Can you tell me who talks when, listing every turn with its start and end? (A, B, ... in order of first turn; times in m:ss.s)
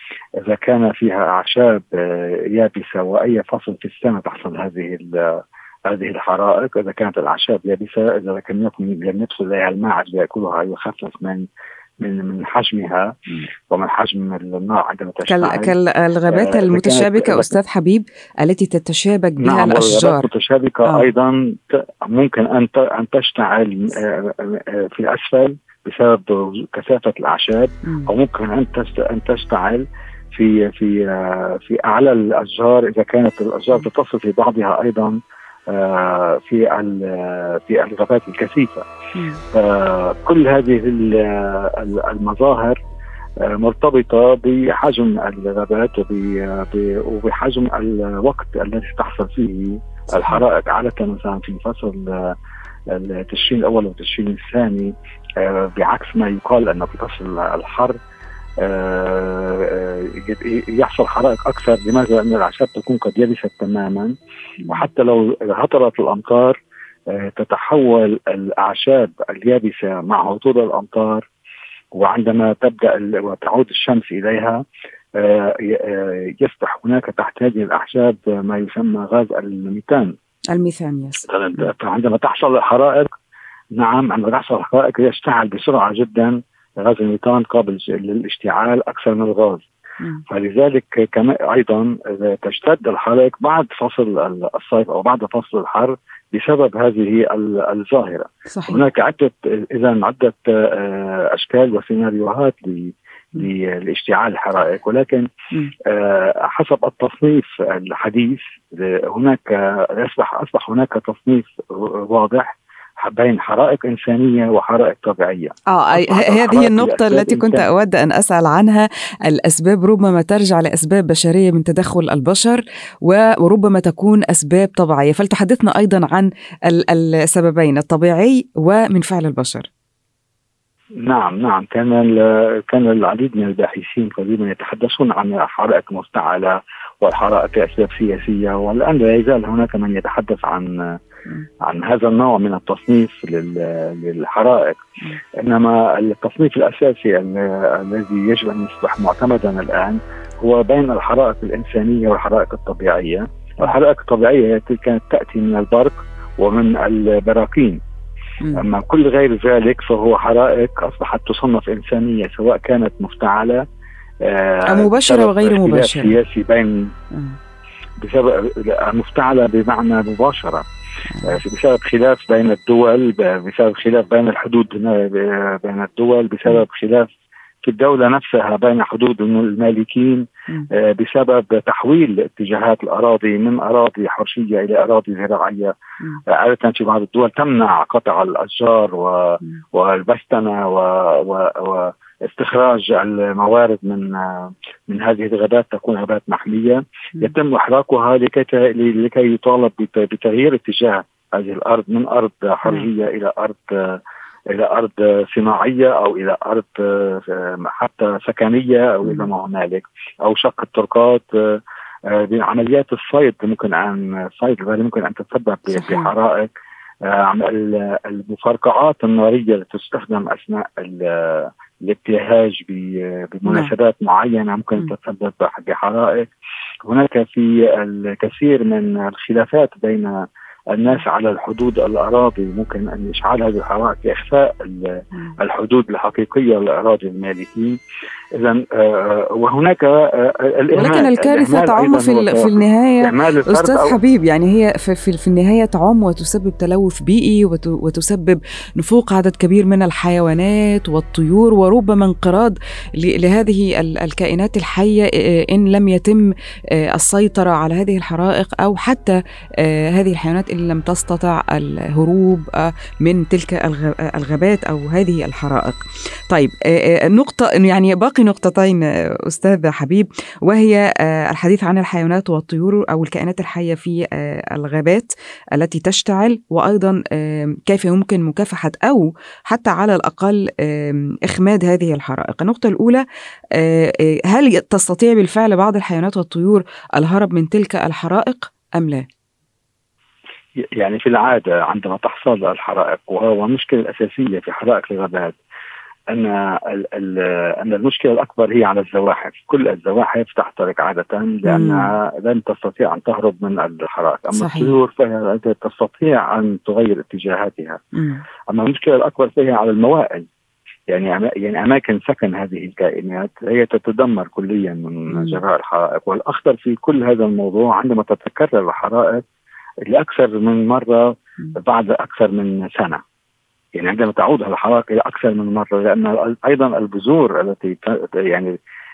0:00.4-0:11.5 A
0:12.0-0:13.1 A
0:13.7-0:15.7 A
0:15.2-0:20.2 B
0:16.3-0:17.5 A
0:19.4-0:35.2 A
0:35.7-0:38.8 A
0:39.1-0:39.4 B
0:39.5-0:42.7 A
0:43.4-0:52.3 A
0:52.9-0:58.0 A
0:58.6-1:04.1 A
1:04.7-1:06.6 A
1:07.1-1:11.2 A
1:11.9-1:14.6 A
1:15.2-1:20.1 A
1:20.5-1:21.2 B
1:21.3-1:23.1 A
1:23.8-1:29.6 A
1:30.3-1:45.3 A
1:38.5-1:38.8 B
1:45.9-1:57.7 A
1:55.7-2:09.7 B
2:11.0-2:20.9 A
2:21.6-2:24.8 A
2:25.4-2:37.8 A
2:38.4-2:38.7 B
2:38.6-2:43.6 A
2:44.2-2:46.9 A
2:44.7-2:46.2 B
2:47.1-2:47.4 B
2:48.0-2:50.6 A
2:51.1-2:51.4 B
2:51.2-2:57.1 A
2:57.6-3:05.7 A
3:06.3-3:24.0 A
3:24.5-3:31.6 A
3:32.1-3:36.5 A
3:35.7-3:36.1 B
3:37.0-3:46.3 A
3:43.5-3:43.7 B
3:46.8-3:57.8 A
3:58.4-4:04.0 A
4:00.8-4:43.0 B
4:43.6-4:49.0 B
4:50.8-4:55.4 A
4:56.1-5:07.8 A
5:01.4-5:01.9 B
5:04.3-5:04.7 B
5:07.9-5:08.2 B
5:08.5-5:10.2 A
5:10.9-5:19.2 A
5:15.1-5:15.4 B
5:19.9-5:23.0 A
5:23.8-5:28.6 A